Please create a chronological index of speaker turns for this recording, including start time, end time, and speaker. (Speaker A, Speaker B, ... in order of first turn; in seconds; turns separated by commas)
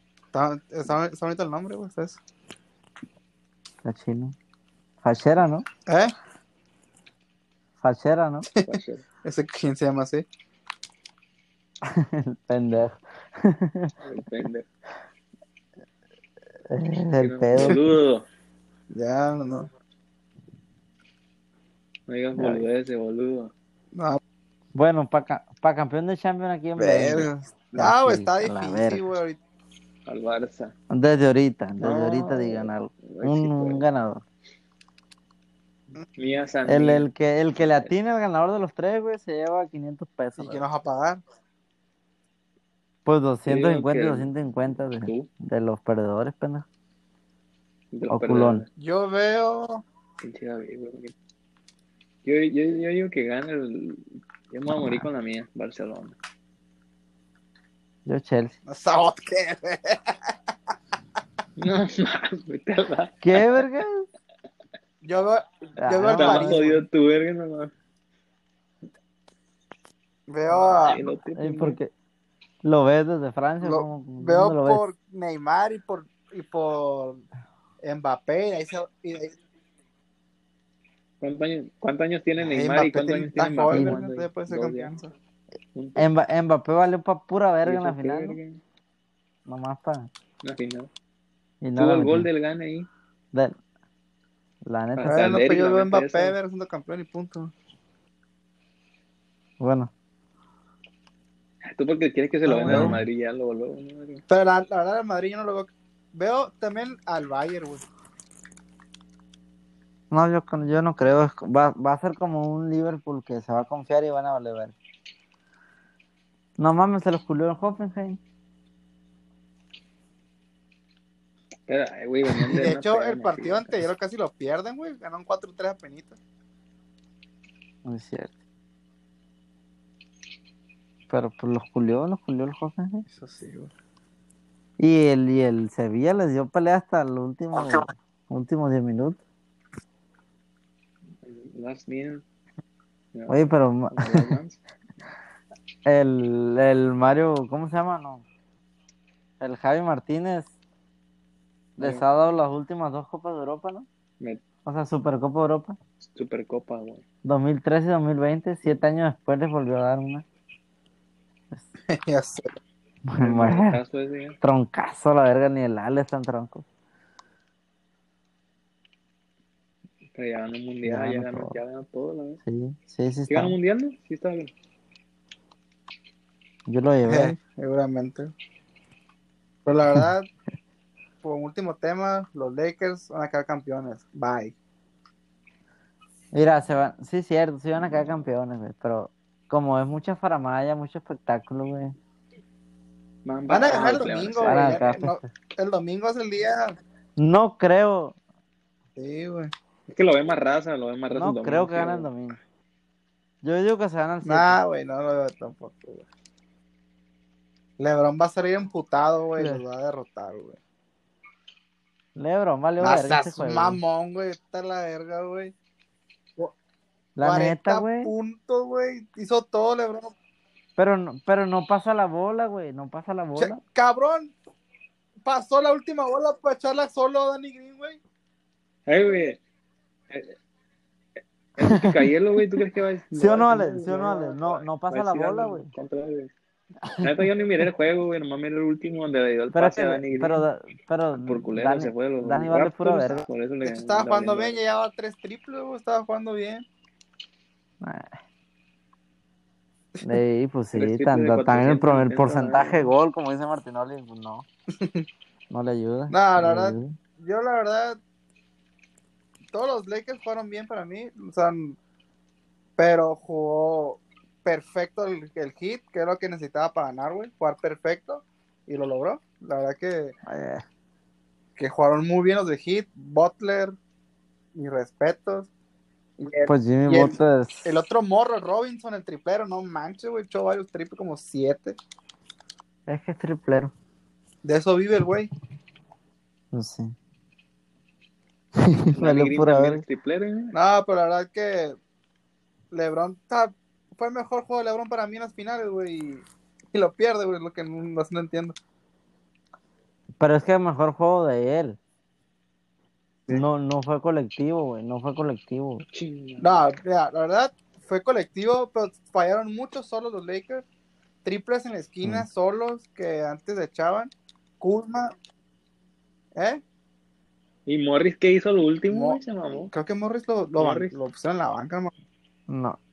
Speaker A: 0.3-2.2, Speaker B: 3.8-4.3, Speaker B: 5.0-5.7, Speaker A: 5.9-6.1, Speaker B: 7.8-8.5, Speaker A: 8.5-10.2, Speaker C: 8.6-9.0, Speaker B: 11.8-13.9, Speaker C: 14.0-14.7, Speaker B: 16.7-17.8, Speaker C: 17.2-18.3, Speaker A: 18.9-19.7, Speaker C: 22.1-23.5, Speaker B: 22.4-22.6, Speaker A: 23.9-24.2, Speaker B: 24.8-29.1, Speaker A: 26.8-29.4, Speaker C: 30.1-30.7, Speaker B: 30.9-34.2, Speaker C: 31.8-33.9, Speaker C: 36.2-38.0, Speaker B: 36.7-40.6, Speaker A: 40.4-41.2, Speaker B: 43.1-46.7, Speaker C: 43.5-45.3, Speaker C: 47.9-48.7, Speaker B: 48.1-48.6, Speaker A: 48.8-49.8, Speaker C: 50.2-51.1, Speaker C: 52.2-56.2, Speaker B: 54.7-55.1, Speaker B: 58.1-58.6, Speaker A: 58.7-60.3, Speaker C: 61.6-63.6, Speaker B: 63.2-64.1, Speaker A: 65.0-66.7, Speaker B: 65.8-66.8, Speaker C: 66.2-67.7, Speaker A: 70.3-71.0, Speaker C: 70.5-71.8, Speaker B: 71.3-71.9, Speaker B: 72.6-74.9, Speaker A: 73.6-77.2, Speaker A: 77.8-79.4, Speaker C: 81.2-84.9, Speaker A: 82.5-85.1, Speaker B: 83.7-84.0, Speaker C: 85.8-86.0, Speaker B: 86.0-88.4, Speaker C: 87.6-88.6, Speaker B: 89.5-90.1, Speaker C: 90.4-90.9, Speaker B: 91.6-92.3, Speaker C: 91.8-92.9, Speaker B: 94.7-95.3, Speaker C: 95.0-96.4, Speaker A: 95.1-97.5, Speaker B: 99.6-99.9, Speaker C: 101.7-104.2, Speaker A: 102.5-103.0, Speaker B: 102.6-103.0, Speaker A: 104.3-107.8, Speaker B: 110.1-114.8, Speaker B: 116.6-118.2, Speaker C: 121.7-123.8, Speaker A: 122.5-126.2, Speaker B: 127.9-128.3, Speaker B: 131.1-133.1, Speaker A: 133.1-133.7, Speaker B: 134.8-139.2, Speaker C: 141.2-142.2, Speaker C: 143.1-144.6, Speaker B: 143.3-144.4, Speaker B: 145.9-148.2, Speaker B: 149.4-150.5, Speaker C: 151.8-152.0, Speaker B: 151.8-153.9, Speaker B: 154.7-155.8, Speaker C: 156.0-157.0, Speaker B: 157.2-160.2, Speaker A: 161.9-162.5, Speaker B: 163.1-163.8, Speaker C: 163.2-164.4, Speaker B: 164.4-166.7, Speaker C: 170.1-172.4, Speaker B: 170.8-171.6, Speaker B: 172.4-173.6, Speaker C: 173.3-174.5, Speaker B: 176.7-177.4, Speaker A: 177.1-178.3, Speaker A: 179.7-180.3, Speaker A: 181.2-184.6, Speaker B: 186.3-191.9, Speaker C: 193.2-194.8, Speaker A: 193.5-196.8, Speaker B: 194.4-195.3, Speaker B: 197.2-198.2, Speaker A: 199.0-199.5, Speaker C: 199.9-202.1, Speaker B: 201.1-202.4, Speaker B: 203.4-204.6, Speaker A: 204.2-206.1, Speaker A: 207.8-210.6, Speaker B: 209.4-209.6, Speaker B: 212.2-213.8, Speaker A: 212.8-215.5, Speaker B: 217.2-218.1, Speaker A: 217.2-220.1, Speaker B: 220.8-223.6, Speaker A: 223.4-224.3, Speaker A: 225.2-228.0, Speaker C: 228.9-229.4, Speaker C: 230.1-230.4, Speaker C: 231.6-236.3, Speaker B: 231.6-232.1, Speaker B: 233.1-235.7, Speaker C: 236.9-240.4, Speaker B: 239.5-243.3, Speaker C: 241.1-244.6, Speaker A: 242.6-243.0, Speaker A: 243.7-246.7, Speaker B: 247.8-248.1, Speaker A: 250.0-250.2, Speaker B: 250.0-254.5, Speaker C: 250.7-252.9, Speaker A: 254.8-255.1, Speaker B: 255.5-257.0, Speaker A: 256.1-258.0, Speaker A: 259.5-261.8, Speaker A: 262.8-270.1, Speaker B: 270.3-270.6, Speaker A: 271.6-273.8, Speaker A: 274.6-275.5, Speaker A: 276.2-281.8, Speaker B: 276.5-277.7, Speaker B: 282.9-283.7, Speaker A: 284.4-285.3, Speaker B: 286.5-286.9, Speaker B: 288.6-289.8, Speaker C: 289.0-290.6, Speaker A: 290.5-291.8, Speaker A: 292.7-298.6, Speaker B: 300.2-301.8, Speaker B: 303.3-305.9, Speaker C: 305.9-306.5, Speaker A: 306.4-310.6, Speaker A: 311.2-315.1, Speaker C: 317.7-319.7, Speaker A: 318.9-319.2, Speaker A: 319.7-321.9, Speaker C: 320.6-320.9, Speaker B: 322.5-322.8